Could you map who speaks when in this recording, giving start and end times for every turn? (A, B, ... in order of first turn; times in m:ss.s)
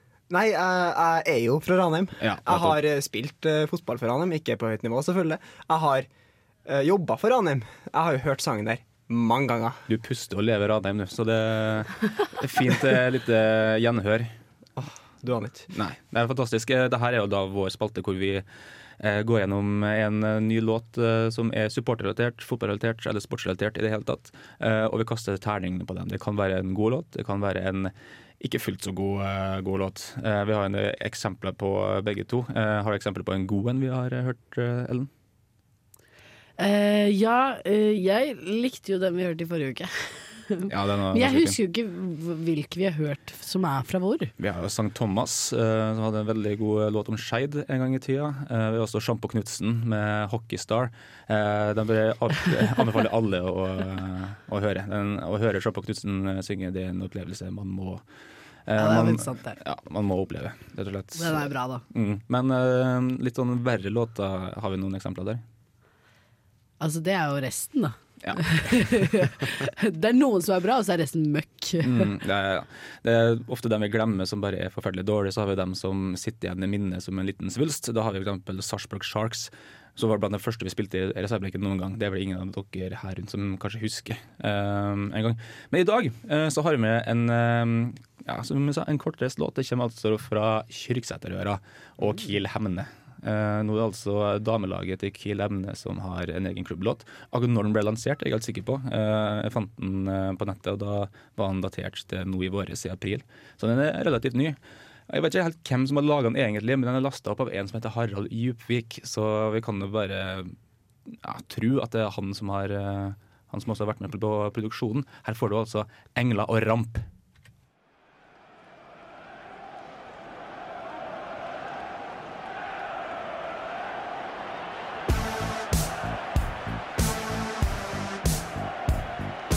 0:00.3-0:06.1 A
0:02.2-0:02.8 B
0:06.7-0:09.8 A
0:09.9-0:14.3 B
0:14.8-0:15.7 A
0:15.7-0:18.4 B
0:19.0-0:35.1 B
0:36.6-0:44.3 C
0:40.7-0:41.6 B
0:44.4-0:58.0 B
0:58.7-1:05.4 B
0:58.8-0:59.6 C
1:01.2-1:01.8 C
1:06.8-1:12.1 C
1:08.2-1:09.1 B
1:11.8-1:44.6 B
1:45.1-1:50.6 B
1:51.1-1:57.0 B